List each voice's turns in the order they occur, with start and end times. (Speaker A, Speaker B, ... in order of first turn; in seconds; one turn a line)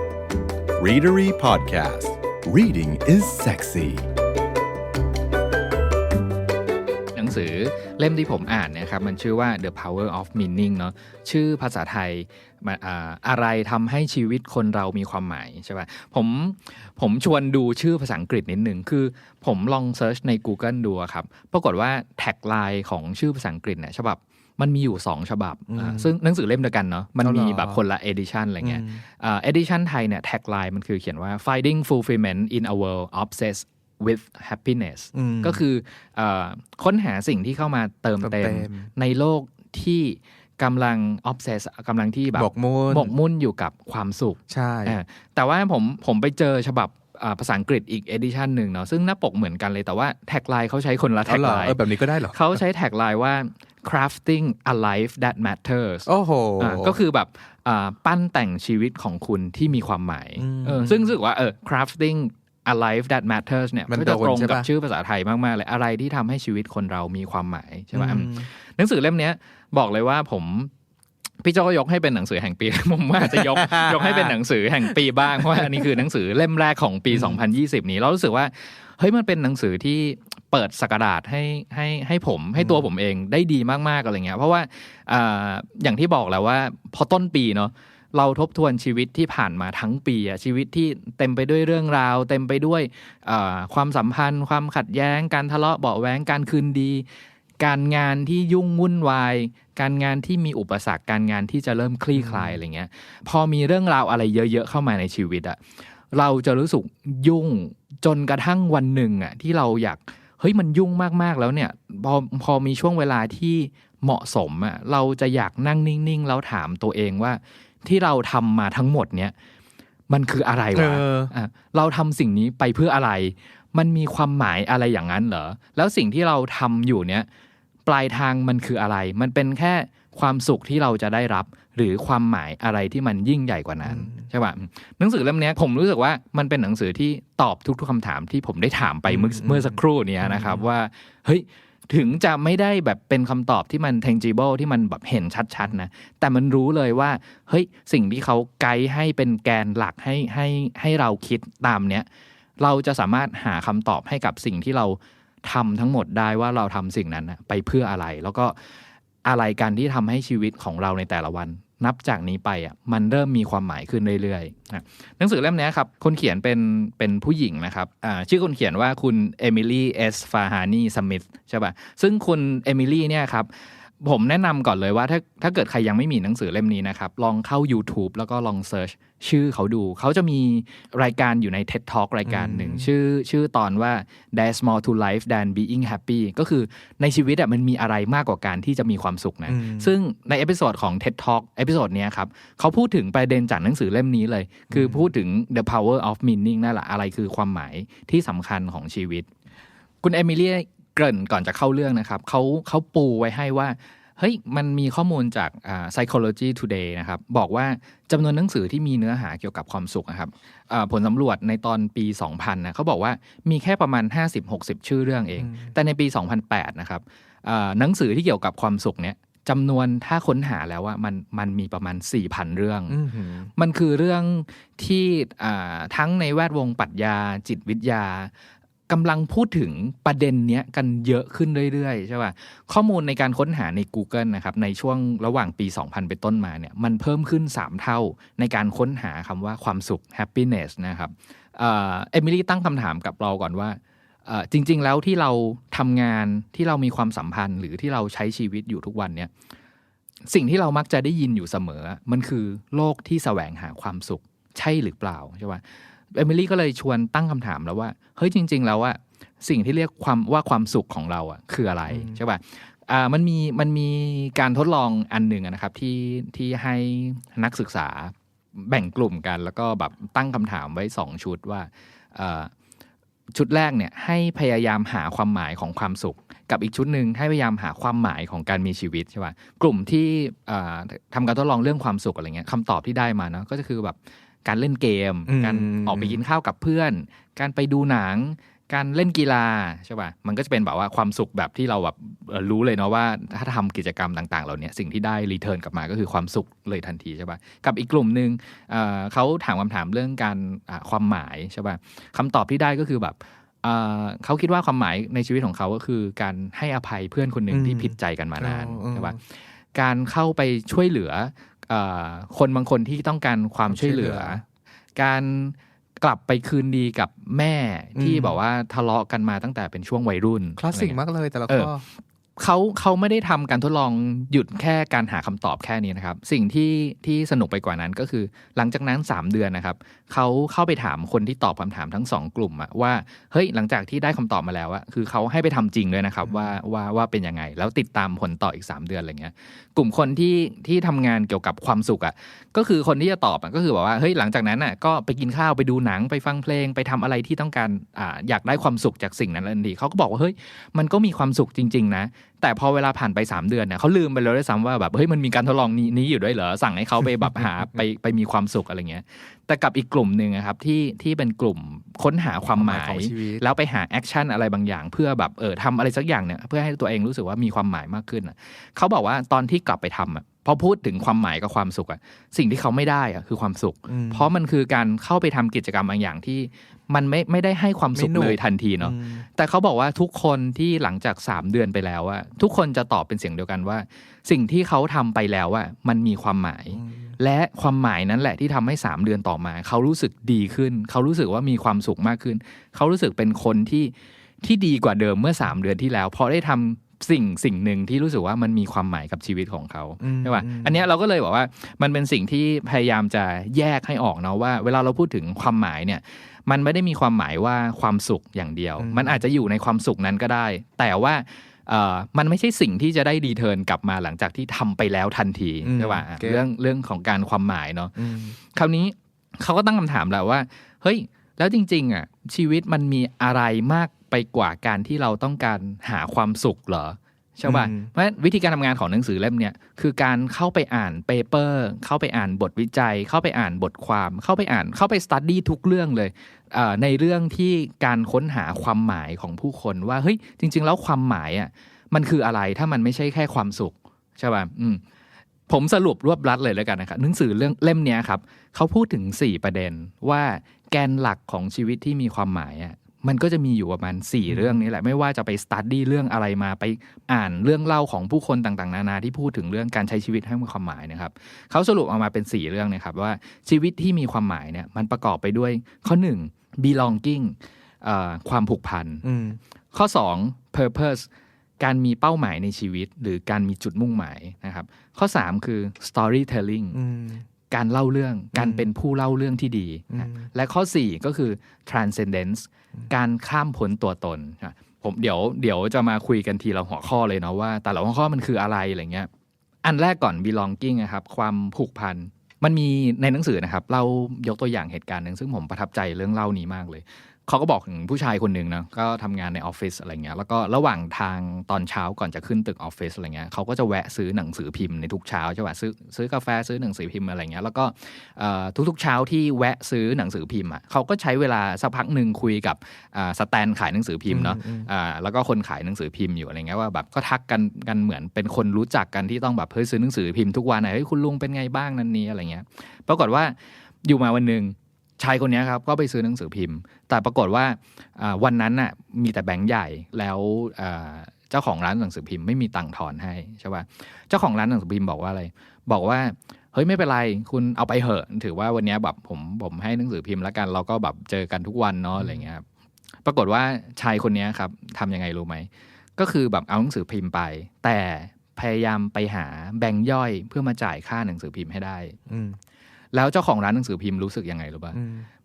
Speaker A: 0.8-4.1
Speaker B: 7.1-51.8
Speaker C: 25.7-26.1
Speaker C: 27.2-27.8
Speaker C: 28.6-29.0
Speaker C: 35.1-35.6
Speaker C: 38.2-38.9
Speaker C: 42.3-43.1
Speaker C: 44.5-45.0
Speaker C: 51.2-52.6
Speaker B: 52.3-56.1
Speaker C: 56.0-57.0
Speaker B: 56.6-70.7
Speaker C: 60.4-61.1
Speaker C: 63.9-64.7
Speaker C: 67.9-68.5
Speaker B: 71.4-97.0
Speaker C: 73.2-74.3
Speaker C: 75.3-75.9
Speaker B: 97.6-105.6
Speaker C: 102.1-102.6
Speaker B: 106.1-119.3
Speaker B: 120.1-127.3
Speaker C: 120.7-121.3
Speaker B: 127.9-152.1
Speaker C: 133.9-134.2
Speaker C: 139.1-140.6
Speaker B: 152.6-158.6
Speaker B: 159.2-173.5
Speaker B: 174.0-199.3
Speaker C: 182.3-182.9
Speaker C: 189.5-189.9
Speaker C: 194.7-195.1
Speaker B: 200.0-223.0
Speaker C: 222.9-223.5
Speaker B: 223.6-228.3
Speaker B: 228.9-249.3
Speaker B: 250.3-272.5
Speaker B: 273.3-309.2
Speaker C: 285.3-286.2
Speaker C: 307.5-309.2
Speaker B: 309.7-314.4
Speaker C: 313.7-314.4
Speaker B: 314.9-321.7
Speaker C: 317.9-318.4
Speaker C: 320.6-321.8
Speaker B: 322.4-444.8
Speaker C: 362.6-363.4
Speaker C: 373.9-374.3
Speaker C: 377.9-379.3
Speaker C: 386.8-387.1
Speaker C: 400.0-400.8
Speaker C: 408.8-409.2
Speaker C: 415.6-416.4
Speaker C: 418.0-418.3
Speaker C: 427.4-427.9
Speaker B: 445.5-469.0
Speaker C: 454.3-454.6
Speaker C: 469.0-469.4
Speaker B: 469.7-471.1
Speaker B: 471.6-476.8
Speaker C: 476.7-477.2
Speaker B: 477.5-489.1
Speaker C: 478.3-478.6
Speaker C: 479.9-480.2
Speaker B: 489.6-542.4
Speaker C: 514.1-514.7
Speaker B: 543.0-552.0
Speaker C: 552.1-552.4
Speaker B: 552.9-554.8
Speaker C: 554.7-555.1